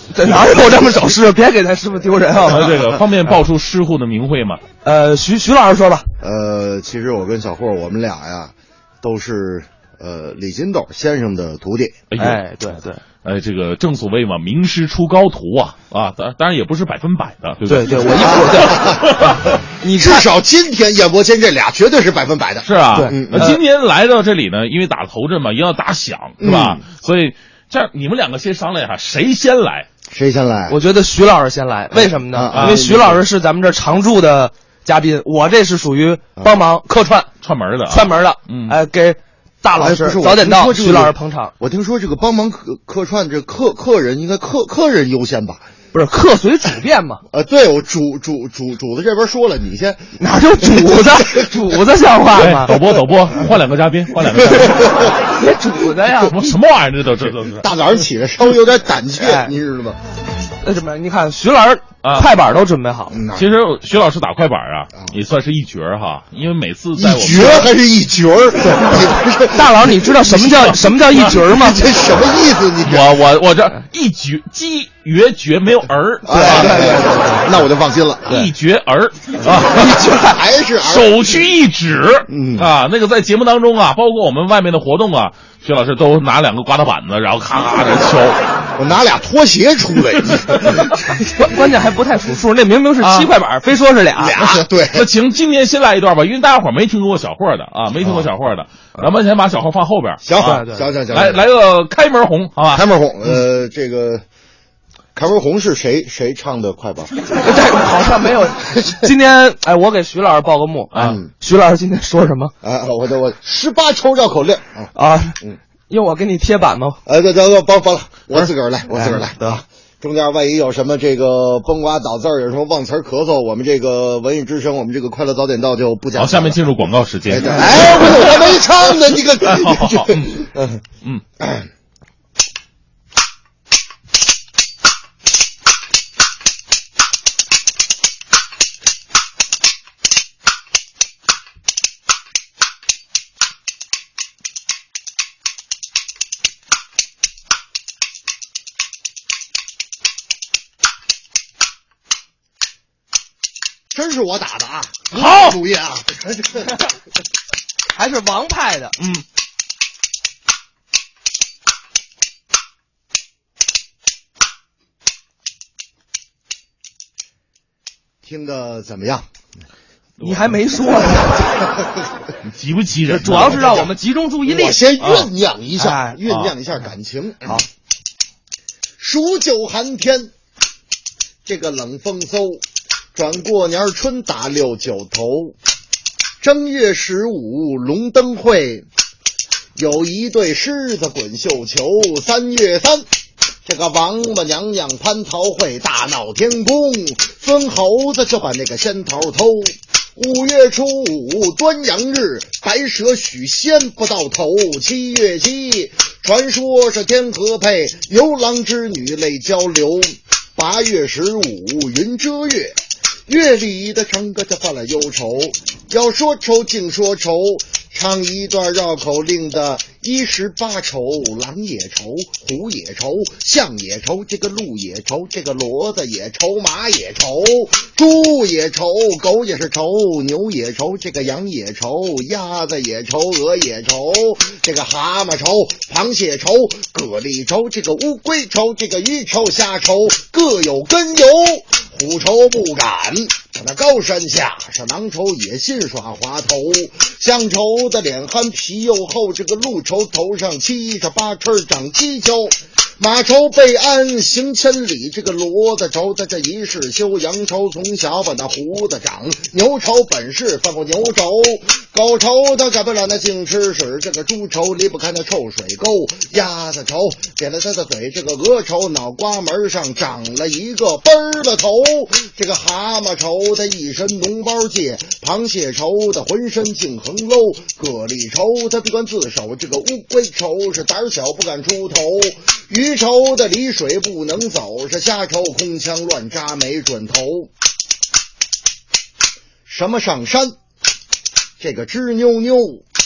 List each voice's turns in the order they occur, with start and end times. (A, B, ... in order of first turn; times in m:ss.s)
0:00.1-0:02.7 A
0:02.5-0:04.6 B
0:04.8-0:06.1 A
0:06.2-0:12.0 C
0:12.1-0:12.4 B
0:12.2-0:13.0 A
0:13.2-0:18.5 B
0:17.7-0:19.0 A
0:18.2-0:19.1 C
0:19.1-0:19.4 B
0:19.8-0:20.3 A
0:20.0-0:23.6 C
0:22.6-0:29.9 B
0:23.0-0:23.6 A
0:26.4-0:26.8 C
0:30.1-0:30.8 C
0:30.7-0:37.3 A
0:31.9-0:33.2 C
0:32.5-0:32.8 B
0:37.4-0:38.7 B
0:37.9-0:41.5 A
0:39.7-0:45.6 C
0:45.9-0:47.2 A
0:47.3-0:50.1 C
0:50.2-0:52.7 A
0:50.8-0:51.4 C
0:52.4-0:54.9 B
0:55.4-0:56.5 A
0:56.2-0:57.7 B
0:57.6-1:00.0 C
0:59.2-0:59.5 A
1:00.6-1:03.2 A
1:03.1-1:03.5 C
1:03.4-1:07.7 B
1:07.0-1:10.0 C
1:09.5-1:11.9 A
1:10.5-1:11.2 B
1:11.4-1:13.2 C
1:12.8-1:16.6 B
1:16.2-1:18.5 C
1:16.3-1:17.2 A
1:18.3-1:19.9 B
1:19.4-1:21.5 C
1:20.8-1:28.4 B
1:22.3-1:22.7 C
1:28.8-1:30.9 C
1:31.4-1:34.3 A
1:33.0-1:33.3 B
1:34.2-1:35.1 C
1:34.4-1:42.8 B
1:38.0-1:38.3 C
1:40.2-1:41.4 C
1:40.4-1:40.9 A
1:42.7-1:44.2 C
1:45.1-1:47.1 C
1:47.4-1:52.5 A
1:50.9-1:51.2 B
1:51.0-1:51.3 C
1:52.6-1:54.9 C
1:54.9-1:55.4 A
1:55.9-1:57.0 A
1:57.0-2:06.6 C
1:58.3-1:59.6 A
2:06.2-2:08.5 B
2:07.3-2:10.8 C
2:09.4-2:10.4 B
2:11.4-2:11.7 C
2:33.9-2:36.7 C
2:35.1-2:35.6 B
2:37.9-2:38.9 A
2:48.2-2:49.3 C
2:50.2-2:50.5 B
2:50.2-2:51.6 A
2:52.4-2:53.8 B
2:53.1-2:55.1 A
2:53.3-2:53.8 C
2:54.4-2:57.6 C
2:55.0-2:55.3 B
2:55.8-2:56.2 A
2:59.0-3:00.3 C
3:01.4-3:02.6 C
3:03.1-3:05.5 C
3:06.4-3:08.8 C
3:09.8-3:13.0 C
3:13.6-4:47.5 C
4:49.7-4:50.5 C
4:51.6-4:52.8 C